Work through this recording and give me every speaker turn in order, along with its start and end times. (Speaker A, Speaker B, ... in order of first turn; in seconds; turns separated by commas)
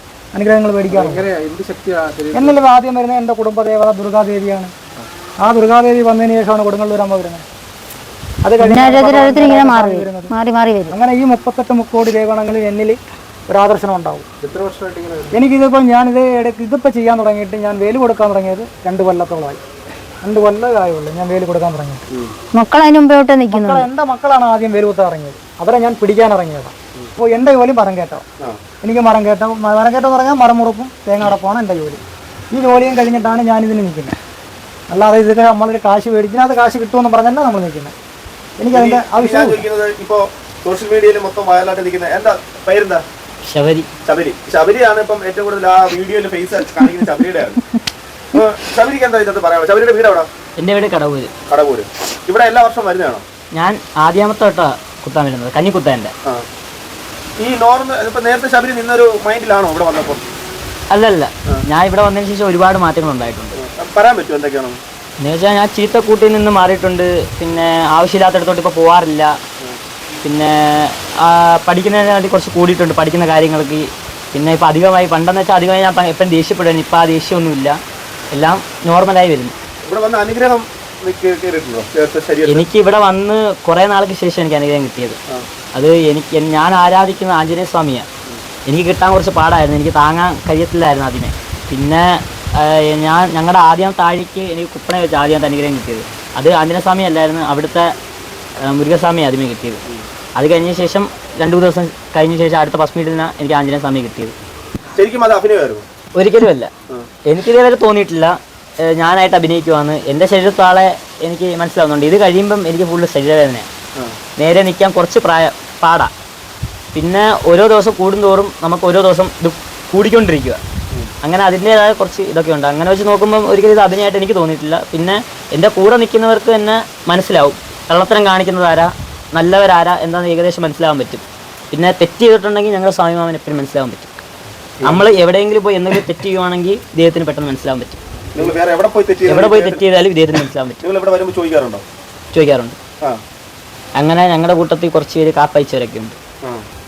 Speaker A: 0.3-1.3, Speaker B: 0.9-2.4, Speaker A: 2.3-4.7, Speaker A: 5.4-7.5, Speaker A: 8.4-10.3, Speaker C: 8.6-10.9, Speaker A: 10.9-14.3, Speaker B: 14.4-15.2, Speaker A: 15.3-19.6, Speaker A: 20.2-22.1, Speaker C: 22.5-23.9, Speaker A: 23.5-28.2, Speaker A: 28.8-32.0, Speaker A: 32.5-34.1, Speaker A: 34.9-37.9, Speaker A: 38.6-39.6, Speaker D: 38.7-43.0, Speaker E: 43.4-43.9, Speaker D: 44.1-47.6, Speaker D: 48.3-50.3, Speaker E: 50.6-51.3, Speaker D: 51.5-53.2, Speaker E: 53.5-56.1, Speaker D: 57.4-60.2, Speaker E: 60.9-63.6, Speaker D: 63.6-64.8, Speaker E: 65.2-69.4, Speaker E: 70.2-77.8, Speaker E: 78.3-79.5, Speaker D: 79.8-82.7, Speaker E: 82.5-85.2, Speaker E: 85.7-88.1, Speaker E: 88.7-97.9, Speaker E: 98.6-99.8, Speaker E: 100.4-104.3, Speaker D: 105.0-105.9, Speaker E: 106.2-106.7, Speaker E: 107.3-113.7, Speaker E: 114.4-116.1, Speaker E: 116.9-120.6, Speaker E: 121.2-134.1, Speaker D: 134.8-135.1, Speaker E: 134.8-138.5, Speaker D: 138.3-139.9, Speaker E: 139.3-140.8, Speaker D: 140.8-141.8, Speaker E: 142.3-142.8, Speaker E: 144.0-146.2